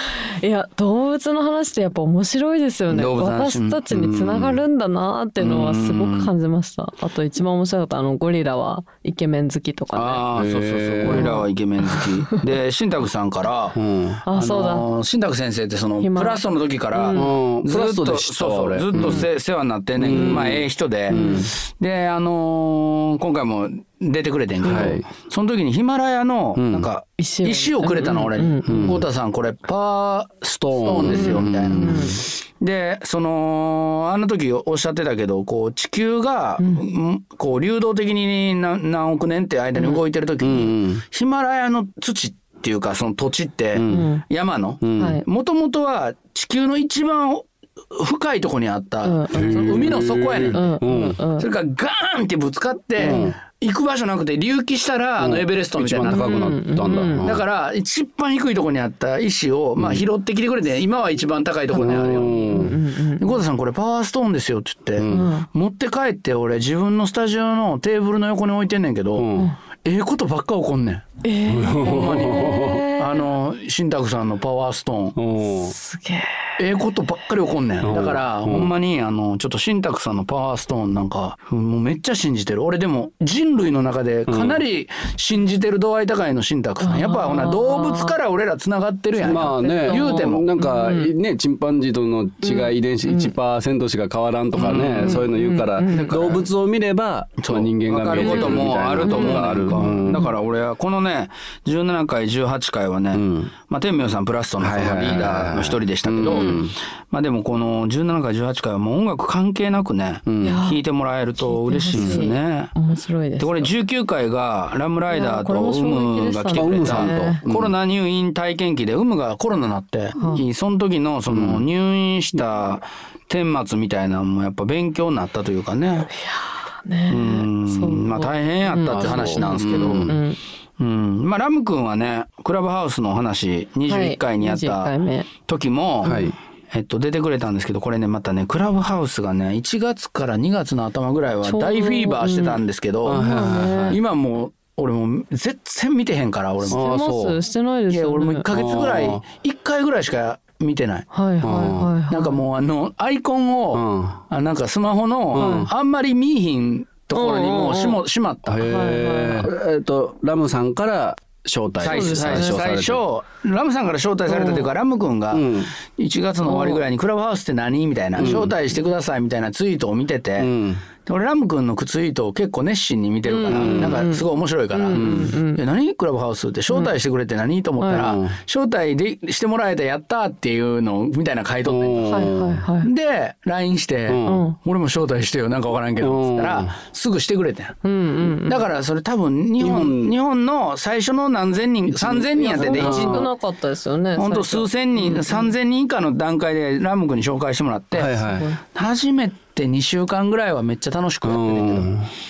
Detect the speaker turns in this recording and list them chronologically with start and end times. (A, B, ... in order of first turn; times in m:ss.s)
0:00.1-0:10.2 A
0:02.9-0:03.8 B
0:03.9-0:04.6 C
0:05.4-0:06.3 B
0:09.9-0:13.8 B
0:10.4-0:11.4 C
0:11.1-0:12.4 A
0:13.8-0:14.2 C
0:14.3-0:14.9 A
0:14.3-0:50.7 B
0:16.0-0:17.3 A
0:17.1-0:19.3 C
0:18.9-0:19.3 A
0:20.0-0:21.5 C
0:20.1-0:20.4 A
0:21.1-0:21.5 A
0:24.6-0:25.0 C
0:24.7-0:24.9 A
0:26.6-0:26.9 C
0:27.2-0:29.0 A
0:28.6-0:29.0 C
0:30.5-0:32.2 C
0:31.0-0:32.2 A
0:40.4-0:41.0 C
0:43.7-0:44.1 C
0:43.9-0:44.2 A
0:44.8-0:45.2 C
0:45.0-0:45.2 A
0:49.0-0:51.5 A
0:49.3-0:51.2 C
0:51.4-0:56.3 B
0:53.0-0:53.4 C
0:53.0-0:53.3 A
0:55.2-0:57.4 C
0:56.1-0:57.3 A
0:57.2-1:09.3 B
0:59.8-1:00.1 C
1:01.7-1:02.8 C
1:01.7-1:03.4 A
1:05.0-1:05.3 C
1:05.1-1:05.5 A
1:09.2-1:09.5 C
1:09.8-1:11.1 B
1:11.2-1:13.3 A
1:11.5-1:12.9 C
1:11.8-1:15.2 B
1:15.2-1:15.8 C
1:15.4-1:16.5 A
1:16.6-1:30.5 B
1:17.8-1:18.7 C
1:24.3-1:24.6 C
1:26.8-1:28.2 A
1:29.2-1:40.3 C
1:29.2-1:31.1 A
1:32.4-1:33.3 A
1:34.6-1:35.3 B
1:34.6-1:36.2 A
1:35.9-1:36.5 B
1:37.4-1:52.7 B
1:38.1-1:40.3 A
1:43.1-1:43.5 C
1:44.6-1:46.8 C
1:46.3-1:46.6 A
1:50.3-1:50.6 C
1:50.4-1:50.8 A
1:51.4-1:53.7 A
1:51.9-1:52.3 C
1:53.4-2:06.1 B
1:55.1-1:57.4 A
1:56.5-1:57.7 C
2:00.2-2:00.4 A
2:01.3-2:01.6 C
2:06.1-2:10.4 A
2:07.1-2:10.2 B
2:08.9-2:10.2 C
2:10.8-2:14.9 B
2:13.9-2:15.3 A
2:15.4-2:16.2 B
2:16.0-2:16.3 A
2:16.0-2:16.4 C
2:16.7-2:23.2 B
2:21.4-2:22.6 A
2:23.0-2:24.0 C
2:23.1-2:24.0 A
2:23.9-2:26.8 B
2:26.6-2:28.5 A
2:26.7-2:27.4 C
2:27.9-2:31.1 B
2:28.5-2:29.2 C
2:31.1-2:32.4 A
2:31.4-2:31.9 C
2:32.1-2:38.6 B
2:33.7-2:34.2 C
2:35.3-2:35.7 C
2:35.4-2:35.7 A
2:37.1-2:38.0 A
2:38.5-2:43.0 C
2:38.6-2:39.5 A
2:41.8-2:50.5 B
2:41.8-2:42.6 A
2:44.3-2:44.7 A
2:45.3-2:45.7 C
2:46.4-2:46.8 A
2:48.2-2:48.6 C
2:50.4-2:50.8 C
2:51.0-3:07.8 B
2:53.2-2:55.6 A
2:53.5-2:54.1 C
2:54.9-2:55.4 C
2:57.8-2:58.2 A
2:57.9-2:58.4 C
3:01.6-3:02.6 C
3:02.1-3:02.9 A
3:04.1-3:04.5 C
3:04.2-3:04.6 A
3:06.0-3:06.8 C
3:07.8-3:08.6 A
3:08.4-3:13.3 B
3:09.6-3:10.2 C
3:11.9-3:13.3 C
3:12.4-3:15.5 A
3:14.2-3:18.1 B
3:17.9-3:18.5 C
3:18.1-3:18.6 A
3:18.7-3:21.9 B
3:21.2-3:22.1 C